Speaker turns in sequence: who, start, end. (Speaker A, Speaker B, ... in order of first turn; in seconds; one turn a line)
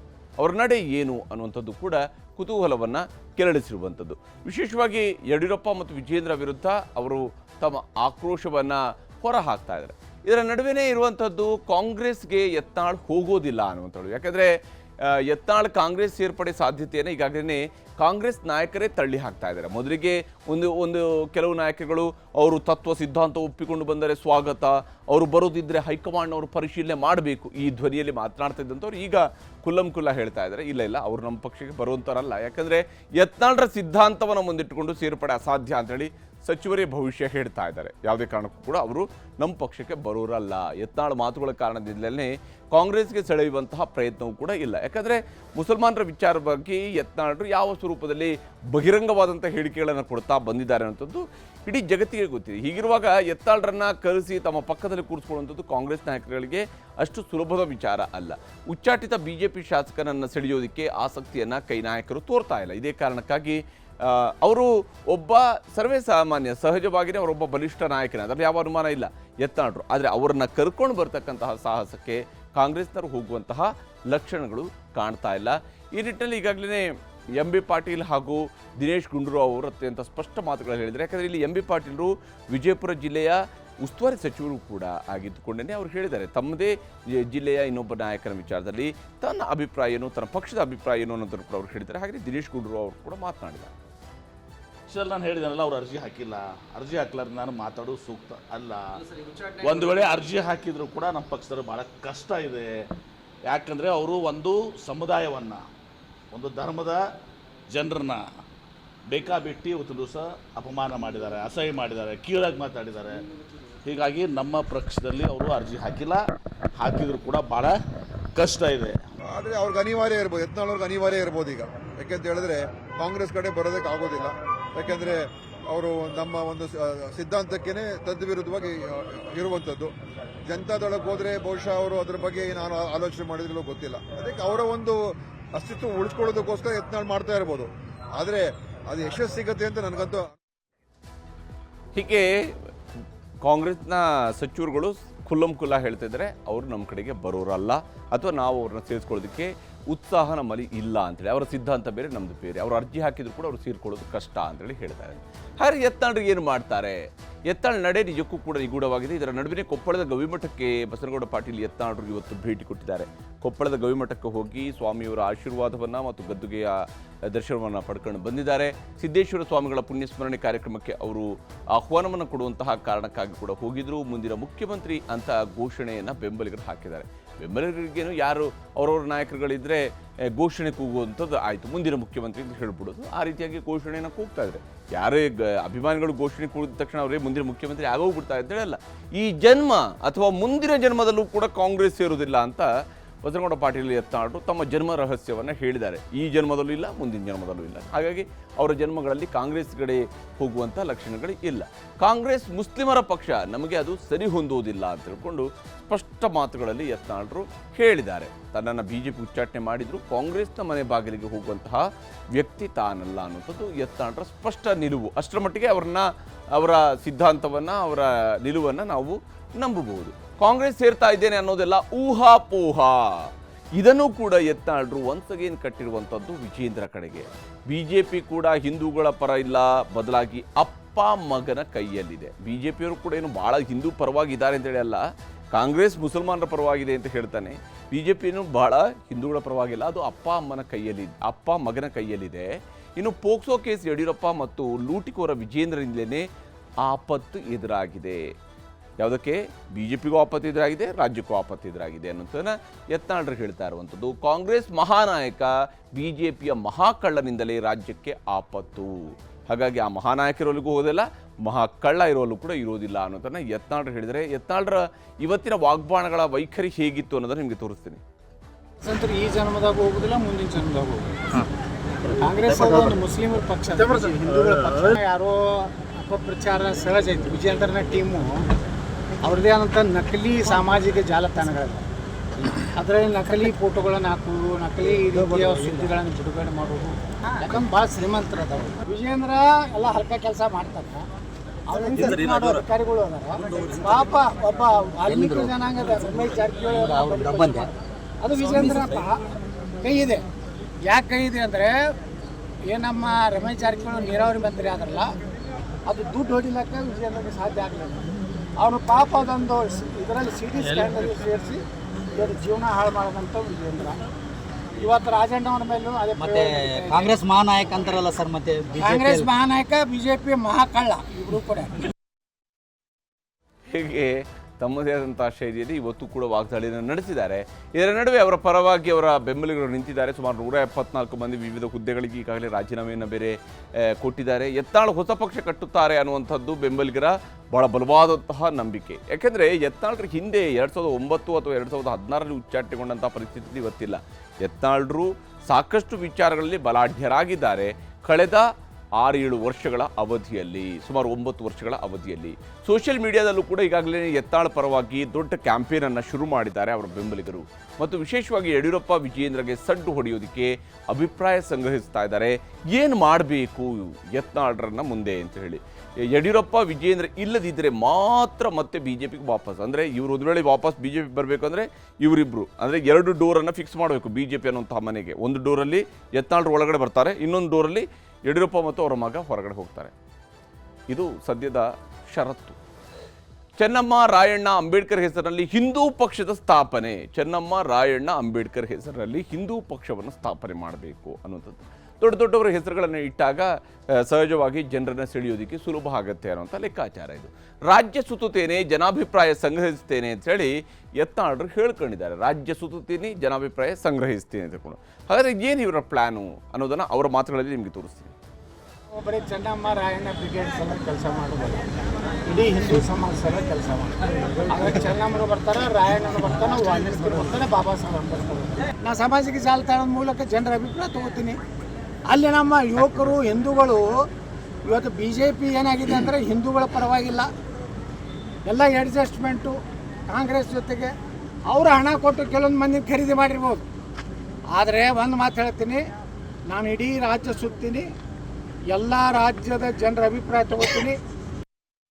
Speaker A: 0.4-93.7
Speaker B: 94.9-99.0
Speaker B: 99.5-102.7
Speaker B: 103.5-105.6
Speaker B: 106.3-107.0
Speaker B: 107.7-108.2
Speaker B: 109.1-113.1
Speaker B: 113.8-116.2
Speaker B: 116.8-117.7
Speaker B: 118.3-119.0
Speaker C: 119.3-129.9
Speaker C: 130.5-140.3
Speaker A: 141.9-142.7
Speaker A: 143.4-192.7
Speaker A: 193.2-235.0
Speaker A: 235.5-246.2
Speaker A: 246.8-248.3
Speaker A: 249.0-268.0
Speaker D: 268.8-271.0
Speaker D: 272.2-278.3
Speaker E: 272.6-272.9
Speaker D: 279.2-281.8
Speaker D: 282.7-291.1
Speaker E: 285.2-285.7
Speaker D: 291.7-297.7
Speaker E: 291.8-292.6
Speaker E: 293.6-294.1
Speaker E: 295.1-295.6
Speaker E: 296.7-297.7
Speaker D: 298.2-299.2
Speaker E: 298.3-299.0
Speaker D: 299.8-300.2
Speaker D: 300.9-301.7
Speaker D: 302.7-305.1
Speaker D: 305.9-308.1
Speaker D: 308.6-311.6
Speaker E: 310.6-311.0
Speaker D: 312.2-314.0
Speaker D: 314.8-317.1
Speaker E: 316.1-319.3
Speaker D: 318.8-321.8
Speaker A: 323.7-348.5
Speaker A: 349.0-379.9
Speaker A: 380.9-382.6
Speaker A: 383.6-408.1
Speaker D: 408.9-411.7
Speaker D: 412.2-421.4
Speaker D: 422.1-423.9
Speaker D: 424.7-427.3
Speaker D: 428.4-429.6
Speaker D: 430.1-430.9
Speaker D: 431.5-433.6
Speaker D: 434.5-435.8
Speaker D: 436.5-437.9
Speaker D: 438.7-440.9